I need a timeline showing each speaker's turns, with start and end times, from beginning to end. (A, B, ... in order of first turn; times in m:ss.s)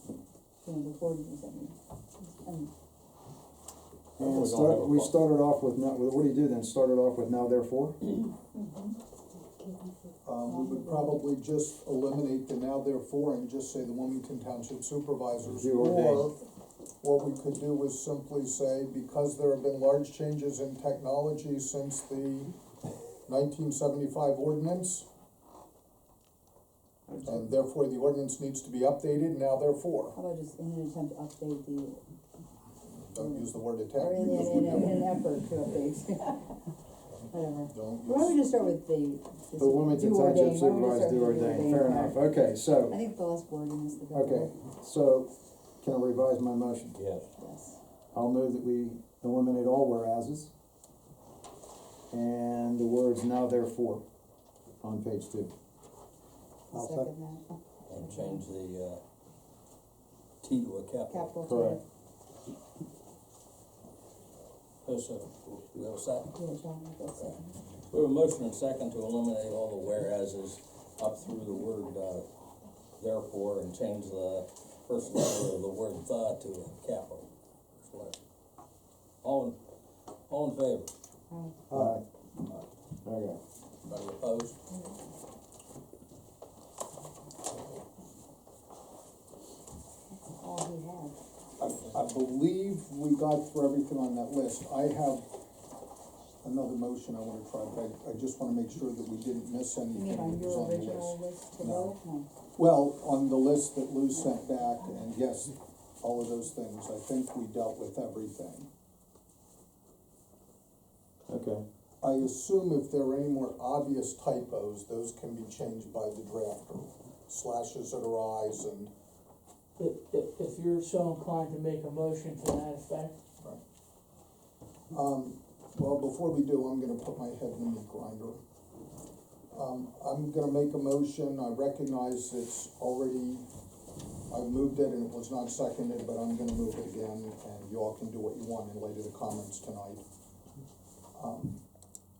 0:00.6-0:01.8 A
0:02.3-0:02.7 A
0:04.2-0:05.2 B
0:04.2-0:08.0 C
0:08.6-0:08.9 A
0:10.2-0:16.4 D
0:10.5-0:11.2 A
0:15.5-0:16.3 C
0:17.0-0:22.5 D
0:23.3-0:25.1 D
0:27.1-0:27.4 E
0:27.2-0:30.2 D
0:30.2-0:32.0 A
0:33.0-0:35.0 D
0:33.2-0:36.6 A
0:37.3-0:42.2 A
0:37.7-0:38.4 D
0:39.6-0:43.0 C
0:42.9-0:44.6 A
0:44.1-0:47.0 C
0:47.0-0:47.3 B
0:47.4-0:47.8 A
0:48.1-0:50.5 C
0:52.1-0:54.0 C
0:54.8-0:55.5 C
0:56.7-0:58.4 A
0:56.7-0:57.1 C
0:57.9-0:59.0 B
1:00.4-1:01.4 B
1:01.1-1:01.8 A
1:01.5-1:01.8 C
1:04.8-1:06.3 B
1:06.3-1:07.6 A
1:07.9-1:12.3 B
1:13.0-1:17.3 B
1:17.8-1:18.2 B
1:19.2-1:19.6 B
1:20.3-1:20.9 B
1:21.3-1:21.6 A
1:21.7-1:22.0 C
1:21.7-1:22.0 D
1:23.0-1:23.4 C
1:23.8-1:24.6 B
1:30.1-1:31.2 A
1:31.6-1:35.3 D
1:36.4-1:41.9 D
1:39.9-1:42.3 A
1:42.6-1:48.7 D
1:51.3-1:51.6 C
1:52.0-1:58.9 D
1:59.8-2:03.1 E
2:04.9-2:08.4 D
2:09.5-2:13.5 D
2:14.3-2:20.0 D
2:21.2-2:21.6 D